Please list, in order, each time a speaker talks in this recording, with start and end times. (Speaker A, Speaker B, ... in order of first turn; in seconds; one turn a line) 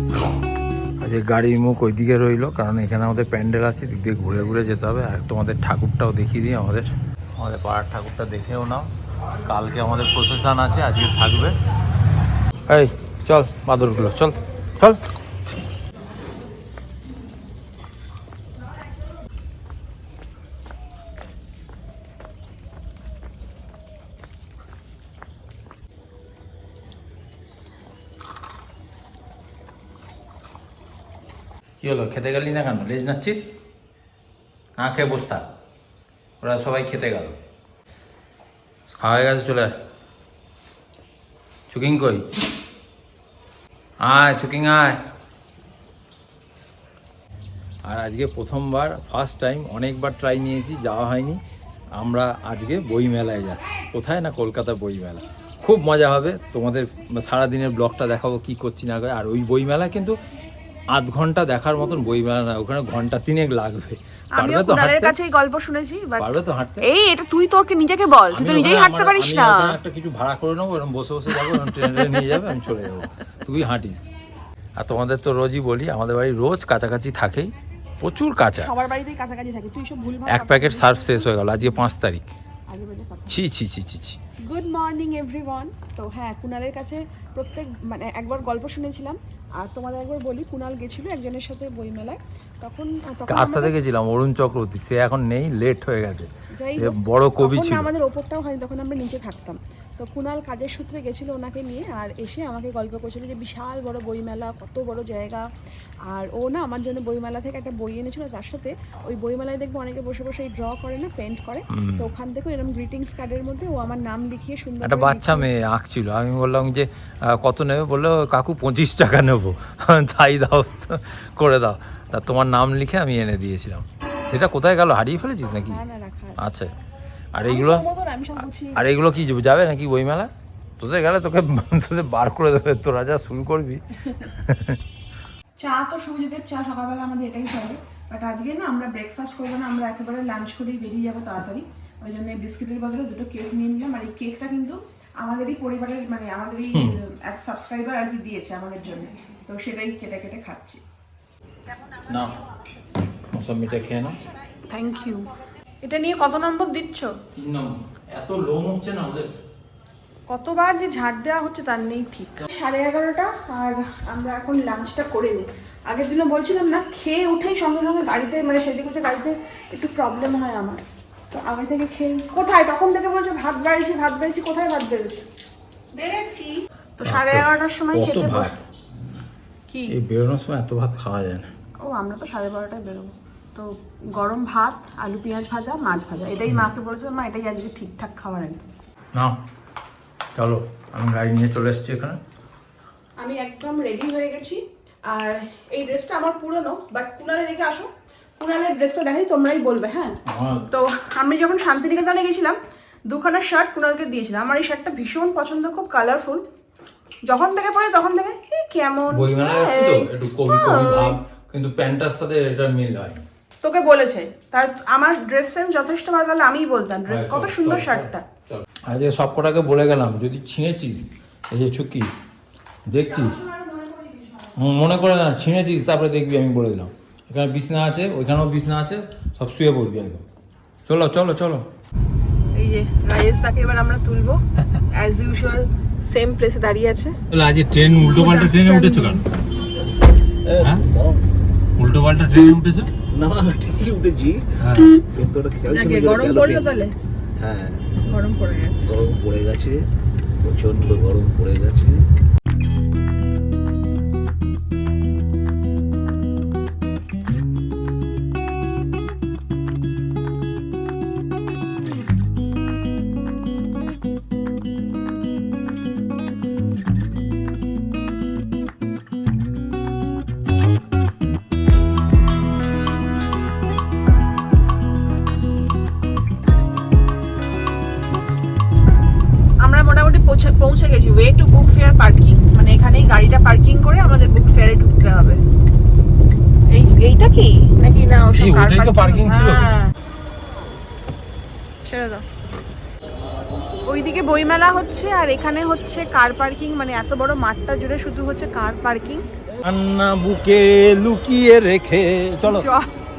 Speaker A: 1.0-8.9
Speaker A: 9.5-11.5
Speaker A: 12.7-15.0
Speaker A: 31.8-33.5
Speaker A: 34.8-35.5
Speaker A: 36.4-37.4
Speaker A: 39.0-39.7
Speaker A: 41.7-42.2
Speaker A: 44.0-45.0
Speaker A: 47.9-51.4
Speaker A: 52.0-60.2
Speaker A: 60.9-65.1
Speaker B: 64.4-66.3
Speaker A: 66.2-66.9
Speaker B: 66.8-69.8
Speaker A: 68.3-74.1
Speaker A: 74.8-78.7
Speaker B: 78.6-81.3
Speaker A: 80.3-82.3
Speaker B: 82.7-83.4
Speaker A: 83.3-84.2
Speaker B: 84.5-93.8
Speaker A: 93.3-97.9
Speaker B: 96.6-105.5
Speaker B: 106.1-115.5
Speaker A: 111.7-112.1
Speaker A: 114.8-125.8
Speaker B: 125.7-126.4
Speaker A: 126.4-126.7
Speaker A: 127.3-127.8
Speaker B: 127.4-128.8
Speaker A: 128.8-134.8
Speaker B: 135.6-150.8
Speaker A: 152.1-152.3
Speaker A: 153.3-154.2
Speaker B: 154.6-157.1
Speaker A: 157.3-159.3
Speaker B: 160.3-175.2
Speaker B: 175.9-178.6
Speaker A: 177.1-178.6
Speaker B: 179.7-180.0
Speaker A: 179.9-181.5
Speaker B: 181.8-188.7
Speaker A: 190.4-192.2
Speaker B: 193.2-200.2
Speaker A: 200.3-200.7
Speaker B: 200.7-202.6
Speaker B: 203.1-206.4
Speaker B: 207.3-211.2
Speaker A: 209.1-213.2
Speaker B: 213.6-218.2
Speaker A: 217.1-222.1
Speaker A: 222.9-223.4
Speaker B: 223.1-224.5
Speaker A: 224.6-230.2
Speaker A: 230.9-231.7
Speaker B: 232.5-237.2
Speaker A: 237.3-239.2
Speaker B: 237.9-239.2
Speaker C: 240.4-241.2
Speaker A: 241.8-242.9
Speaker C: 243.1-246.8
Speaker A: 244.6-245.0
Speaker B: 245.7-246.9
Speaker C: 247.4-248.0
Speaker B: 248.0-249.0
Speaker C: 248.9-249.8
Speaker C: 250.4-252.1
Speaker B: 279.6-285.4
Speaker B: 286.7-289.9
Speaker A: 288.4-289.7
Speaker B: 291.8-292.2
Speaker B: 293.9-299.2
Speaker A: 299.6-302.7
Speaker B: 302.4-302.9